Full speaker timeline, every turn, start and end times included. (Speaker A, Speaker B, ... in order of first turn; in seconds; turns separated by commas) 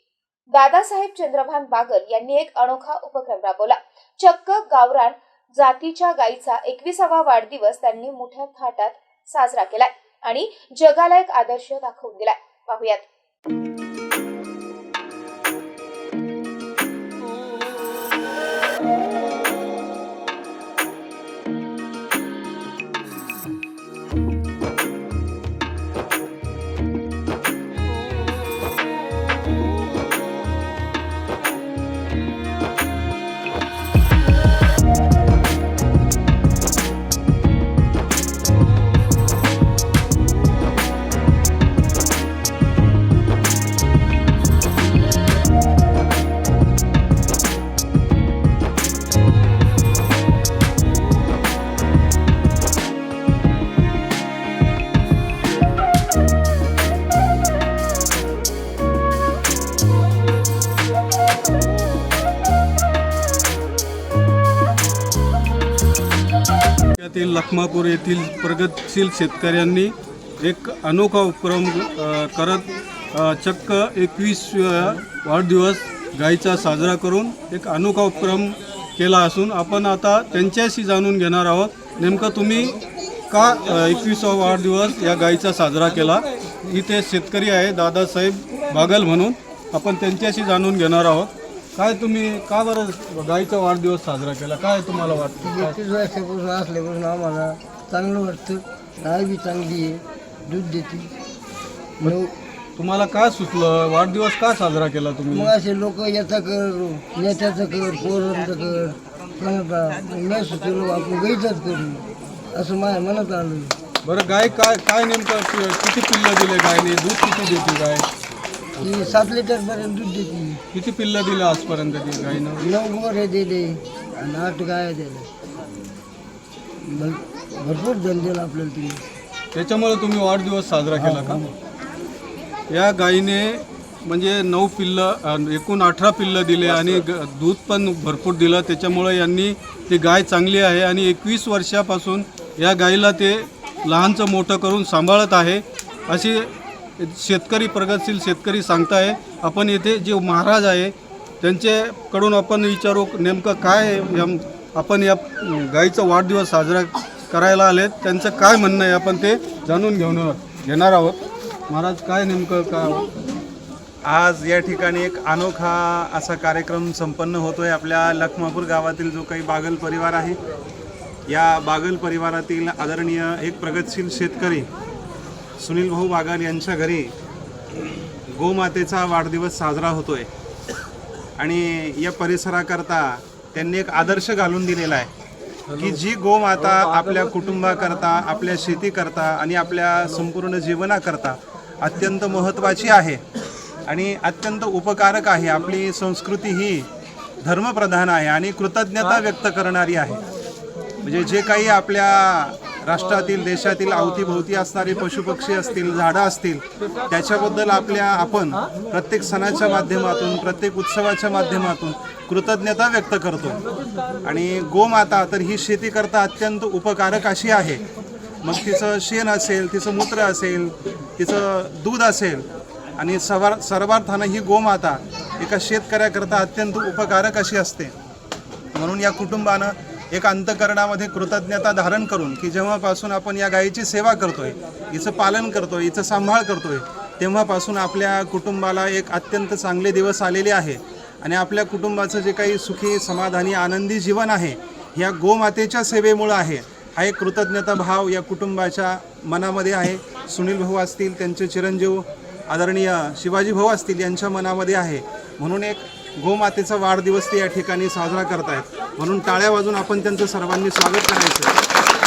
Speaker A: 0.5-13.1, Speaker B: 66.9-82.8, Speaker B: 83.3-95.8, Speaker C: 95.4-101.1, Speaker C: 102.0-102.3, Speaker B: 102.8-105.5, Speaker C: 105.3-113.8, Speaker B: 114.0-118.1, Speaker C: 118.8-120.6, Speaker B: 120.7-122.6, Speaker C: 122.6-125.3, Speaker C: 126.8-129.0, Speaker B: 129.5-131.4, Speaker C: 130.9-131.5, Speaker B: 132.7-163.1, Speaker D: 164.0-170.4, Speaker D: 171.3-174.7, Speaker D: 175.6-177.1, Speaker D: 178.3-180.3, Speaker D: 181.4-185.1, Speaker D: 185.8-193.2, Speaker D: 193.9-196.9, Speaker D: 197.4-200.2, Speaker D: 201.0-213.6, Speaker D: 214.2-217.8, Speaker D: 218.4-222.4, Speaker D: 223.0-227.9, Speaker D: 228.7-261.6